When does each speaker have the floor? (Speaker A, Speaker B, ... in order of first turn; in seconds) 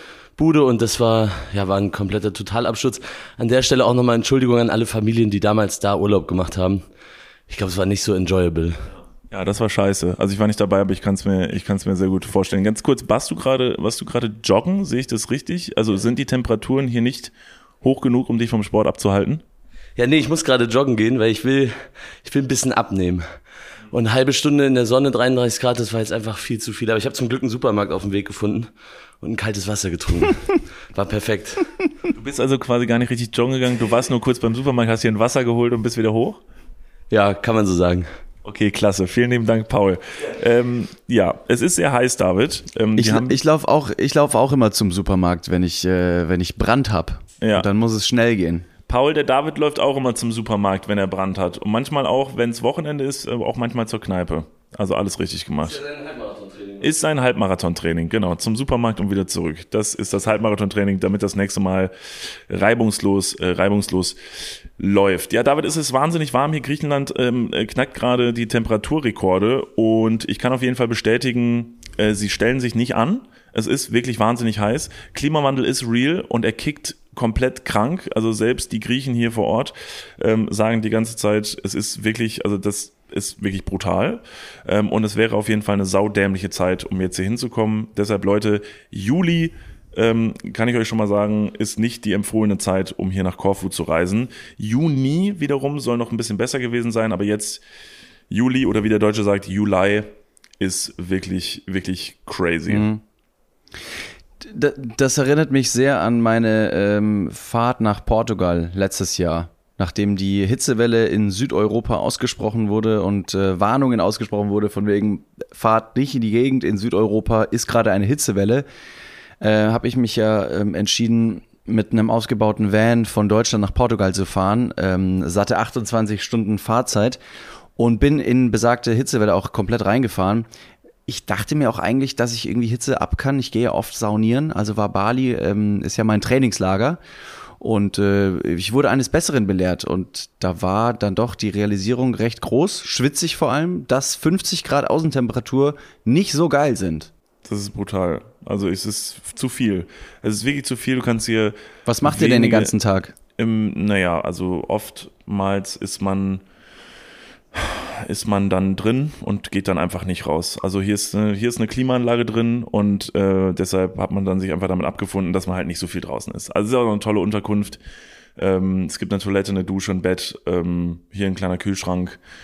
Speaker A: 0.4-6.8, 7.5-8.9, 20.0-23.2, 23.9-28.7, 29.2-31.7, 37.1-38.1, 55.8-56.8
Speaker B: 9.3-19.4, 32.1-36.4, 38.5-43.4, 47.4-47.7, 48.9-55.8, 56.8-64.2, 64.8-97.6, 98.3-102.9, 147.4-152.7, 153.4-156.4, 157.5-167.8, 168.4-172.2
Speaker C: 43.0-48.7, 102.7-103.0, 104.4-118.7, 119.4-127.2, 127.8-130.5, 131.1-137.0, 137.6-147.1, 151.9-153.1